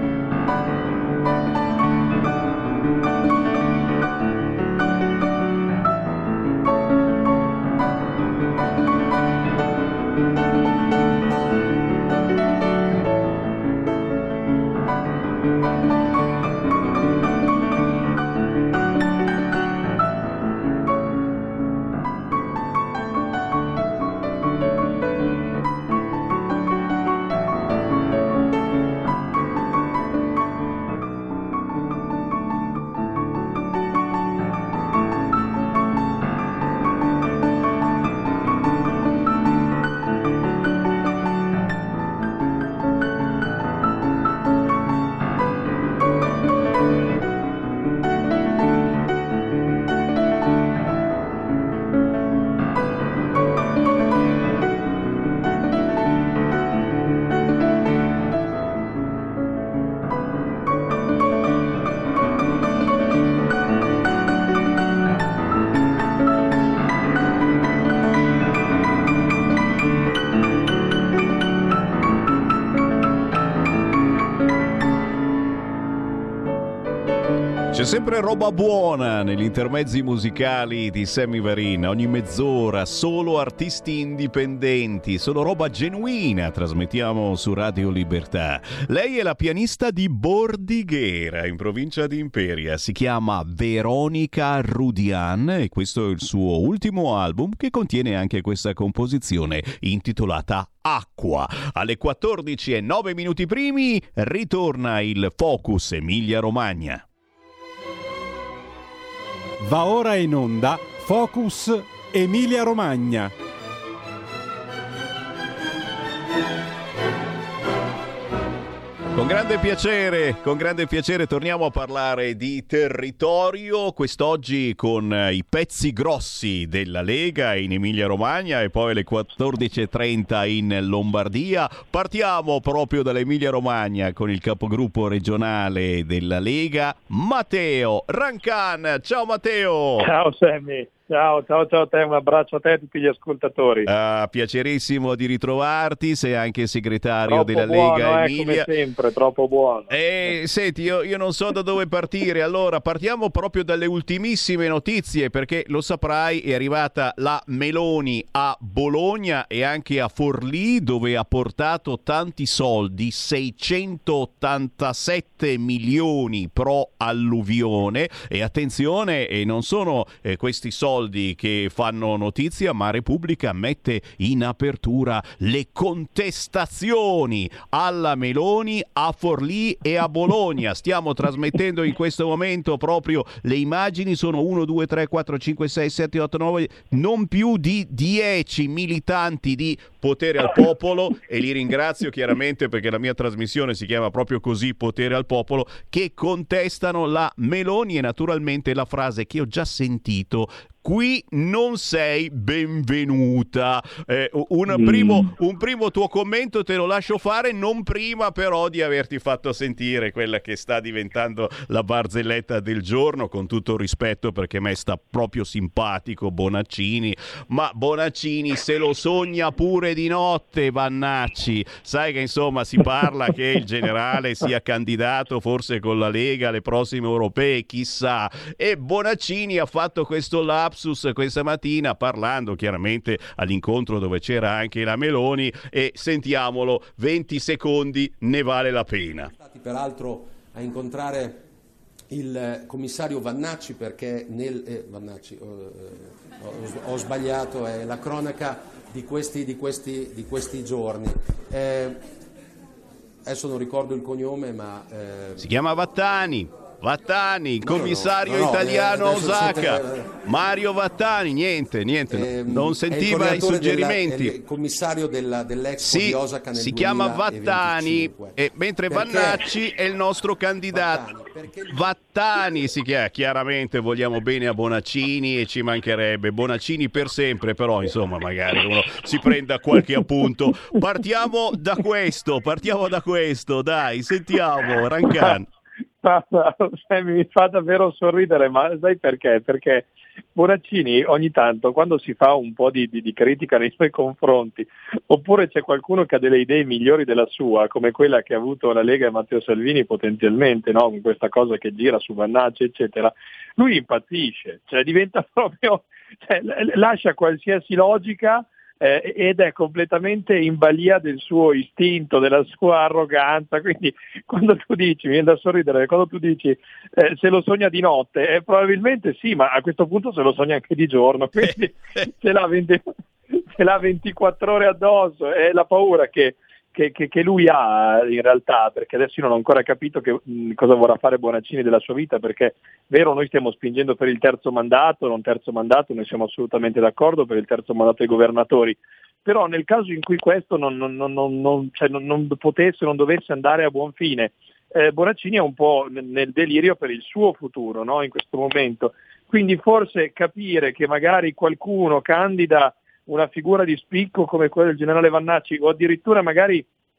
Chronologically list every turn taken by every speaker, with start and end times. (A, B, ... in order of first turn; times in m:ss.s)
1:17.7-1:47.0 A
1:49.6-1:53.3 B
1:59.1-2:20.1 A
2:20.0-2:23.9 C
2:23.8-2:28.7 A
2:27.2-2:29.9 C
2:29.9-3:59.3 A
3:24.8-3:25.2 C
3:59.3-4:01.4 D
4:02.1-4:12.0 D
4:13.2-4:15.5 D
4:15.4-4:24.4 A
4:17.6-4:20.1 D
4:22.1-4:29.4 D
4:25.8-4:31.0 A
4:30.7-4:31.9 D
4:31.7-4:45.5 A
4:46.0-5:22.9 C
5:23.6-5:56.6 C